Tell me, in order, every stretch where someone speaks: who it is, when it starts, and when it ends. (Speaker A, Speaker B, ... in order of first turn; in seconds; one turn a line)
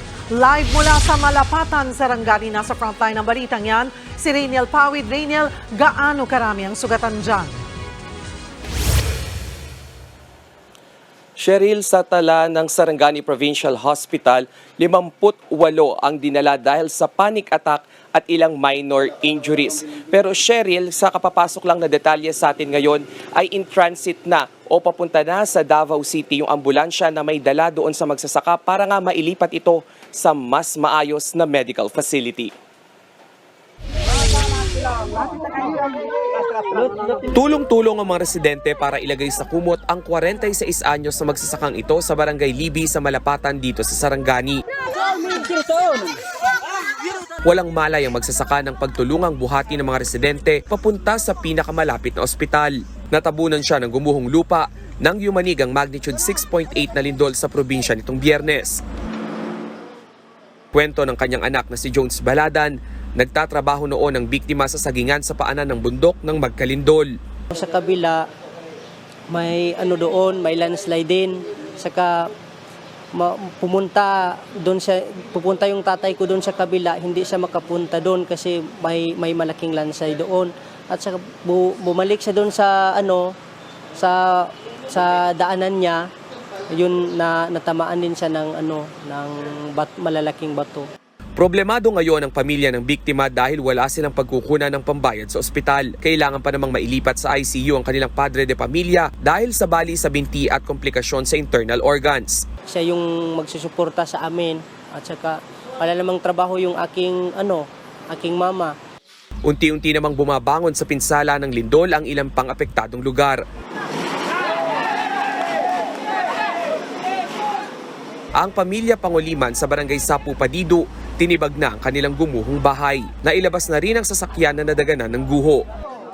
Speaker A: 0.3-7.6
Speaker B: 11.4-32.5
Speaker B: 37.3-44.6
Speaker B: 47.5-58.8
Speaker B: 60.7-67.2
Speaker C: 67.5-68.3
Speaker C: 69.3-72.3
Speaker C: 73.1-83.3
Speaker C: 84.0-86.1
Speaker C: 86.7-90.9
Speaker B: 91.4-102.5
Speaker C: 102.7-108.7
Speaker B: 109.5-113.4
Speaker B: 118.4-125.7